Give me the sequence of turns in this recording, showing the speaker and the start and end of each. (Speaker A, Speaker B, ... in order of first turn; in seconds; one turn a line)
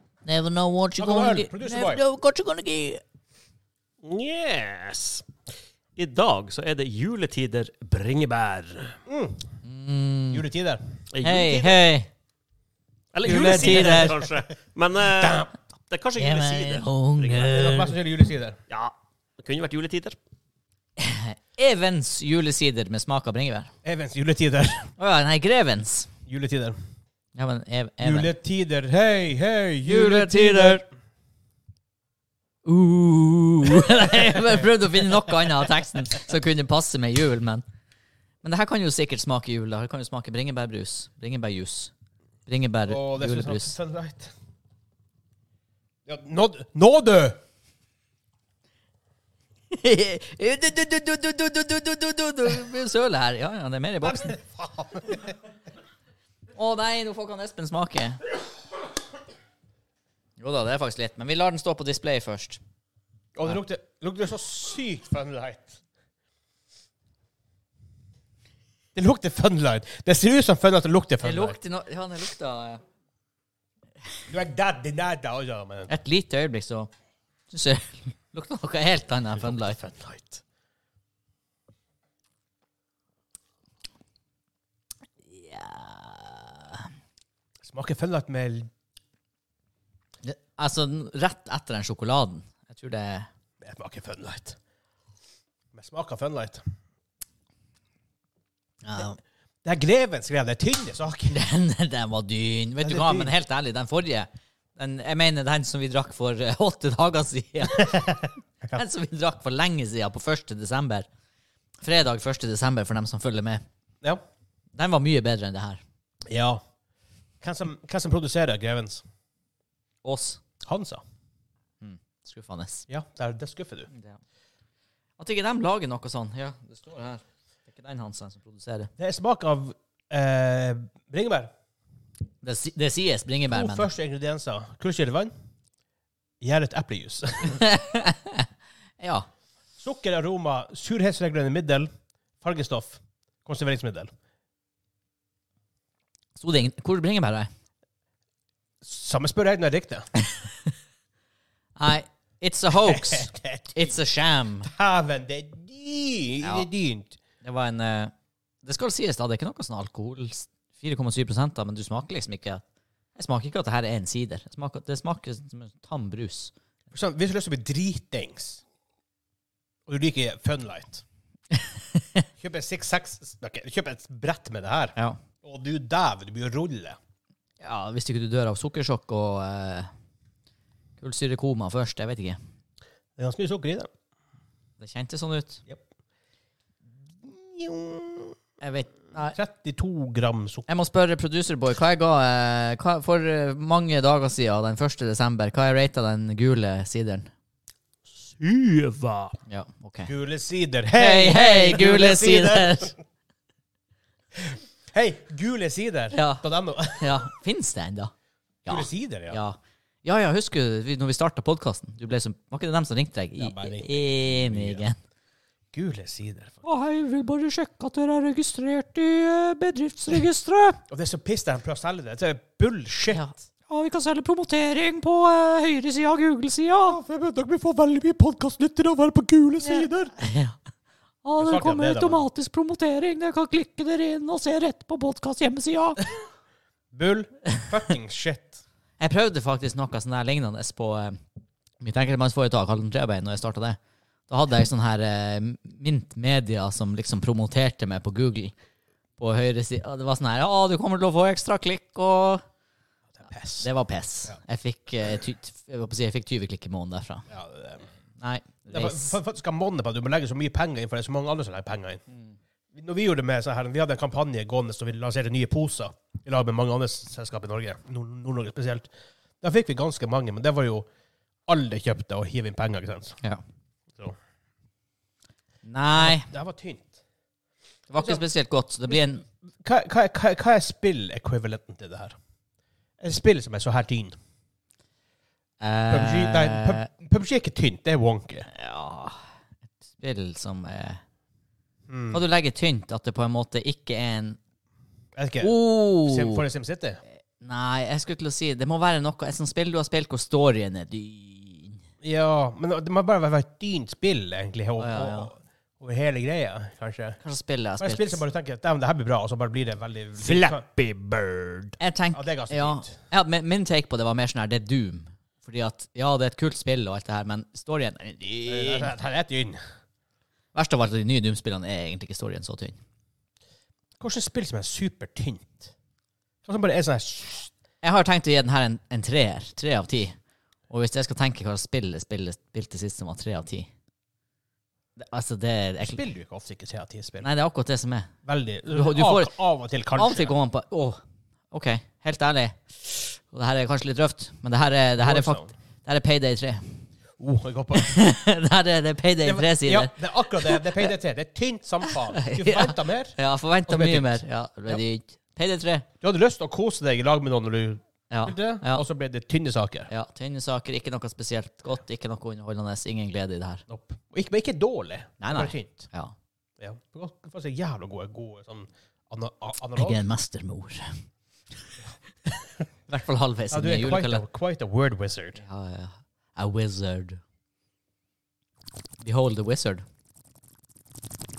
Speaker A: 0.2-3.0
Speaker B: 1.0-2.0
Speaker C: 4.0-5.3
Speaker C: 6.0-9.0
Speaker B: 9.1-9.6
Speaker A: 9.6-10.4
Speaker B: 10.3-11.0
Speaker C: 11.1-11.8
Speaker A: 11.2-12.1
Speaker C: 13.1-17.7
Speaker B: 13.2-14.3
Speaker A: 13.2-14.2
Speaker B: 15.2-15.5
Speaker A: 16.2-17.9
Speaker B: 17.5-18.6
Speaker C: 18.7-20.2
Speaker A: 21.0-23.7
Speaker B: 23.8-24.9
Speaker A: 25.0-26.1
Speaker B: 26.3-26.8
Speaker A: 27.4-28.3
Speaker B: 28.0-30.8
Speaker A: 29.9-30.8
Speaker A: 32.6-37.6
Speaker A: 38.4-41.9
Speaker A: 42.5-43.8
Speaker B: 42.9-44.3
Speaker B: 46.1-47.4
Speaker A: 49.7-54.4
Speaker B: 54.0-55.4
Speaker A: 56.5-58.2
Speaker A: 60.4-62.6
Speaker B: 63.4-65.8
Speaker B: 69.0-71.6
Speaker A: 71.2-72.8
Speaker B: 74.3-75.9
Speaker A: 75.9-76.9
Speaker A: 77.5-79.8
Speaker B: 79.4-80.4
Speaker A: 85.3-86.8
Speaker B: 87.6-88.7
Speaker A: 90.2-93.3
Speaker B: 93.6-94.6
Speaker B: 95.7-96.6
Speaker A: 98.8-99.2
Speaker B: 99.6-101.4
Speaker A: 101.3-111.1
Speaker B: 102.8-103.3
Speaker A: 111.8-113.6
Speaker A: 114.7-115.8
Speaker B: 116.3-116.6
Speaker B: 117.4-119.0
Speaker A: 120.0-120.4
Speaker B: 120.6-121.0
Speaker A: 121.8-122.8
Speaker B: 122.9-123.9
Speaker A: 123.9-124.2
Speaker A: 125.2-128.9
Speaker B: 129.0-131.5
Speaker A: 132.4-133.9
Speaker B: 133.5-135.3
Speaker B: 136.4-137.6
Speaker A: 137.6-138.5
Speaker A: 139.0-139.3
Speaker B: 139.8-144.1
Speaker A: 146.4-147.5
Speaker B: 148.8-150.1
Speaker A: 151.8-154.7
Speaker B: 152.8-154.0
Speaker B: 154.6-157.2
Speaker A: 156.4-156.7
Speaker A: 157.4-158.1
Speaker A: 158.6-162.6
Speaker A: 163.2-166.5
Speaker B: 166.9-168.6
Speaker B: 169.9-171.0
Speaker A: 171.5-172.0
Speaker B: 172.4-177.0
Speaker A: 177.6-179.9
Speaker A: 181.0-182.4
Speaker B: 183.2-183.9
Speaker A: 184.8-185.6
Speaker B: 187.2-188.4
Speaker A: 188.6-189.4
Speaker B: 189.2-190.7
Speaker A: 190.7-197.3
Speaker C: 198.4-199.4
Speaker A: 199.5-200.1
Speaker B: 200.0-203.0
Speaker A: 200.9-202.9
Speaker B: 204.9-207.3
Speaker A: 206.1-208.1
Speaker A: 208.6-215.0
Speaker B: 208.7-209.4
Speaker B: 213.4-214.9
Speaker B: 215.7-216.7
Speaker A: 216.6-220.8
Speaker B: 220.9-223.2
Speaker A: 223.1-227.0
Speaker B: 226.9-230.1
Speaker A: 229.6-230.6
Speaker A: 231.2-236.1
Speaker B: 231.4-232.3
Speaker B: 236.9-238.6
Speaker A: 239.0-241.2
Speaker A: 241.8-248.5
Speaker A: 249.2-252.4
Speaker B: 253.2-253.7
Speaker A: 253.6-257.2
Speaker B: 257.3-257.9
Speaker A: 258.2-259.2
Speaker B: 258.7-262.0
Speaker B: 262.7-270.9
Speaker B: 271.5-273.2
Speaker A: 275.6-276.3
Speaker B: 275.9-277.0
Speaker A: 277.9-279.2
Speaker B: 278.0-278.2
Speaker B: 279.6-282.2
Speaker B: 283.0-284.2
Speaker A: 285.6-286.9
Speaker B: 285.9-288.5
Speaker A: 288.6-291.0
Speaker B: 291.9-292.2
Speaker A: 292.1-294.4
Speaker B: 295.2-297.0
Speaker A: 295.4-296.4
Speaker A: 297.4-301.8
Speaker B: 302.0-307.2
Speaker A: 304.8-305.3
Speaker A: 307.2-308.2
Speaker B: 307.8-310.7
Speaker C: 310.2-311.8
Speaker A: 311.8-318.9
Speaker B: 312.1-313.0
Speaker B: 318.5-319.6
Speaker A: 320.5-322.8
Speaker B: 324.0-325.7
Speaker B: 326.4-327.5
Speaker A: 327.8-330.2
Speaker A: 330.7-333.7
Speaker A: 335.0-336.0
Speaker B: 335.8-337.3
Speaker A: 337.2-338.1
Speaker B: 338.2-340.4
Speaker A: 338.7-339.4
Speaker A: 339.9-346.9
Speaker B: 345.0-345.5
Speaker B: 347.2-347.9
Speaker A: 347.7-350.9
Speaker B: 349.2-354.8
Speaker A: 351.9-355.9
Speaker B: 356.0-359.9
Speaker A: 358.1-358.9
Speaker A: 359.9-363.6
Speaker B: 363.7-365.9
Speaker A: 365.2-366.1
Speaker B: 366.6-370.1
Speaker A: 369.8-371.1
Speaker A: 372.9-374.2
Speaker B: 373.5-375.4
Speaker A: 375.4-377.2
Speaker A: 379.0-379.8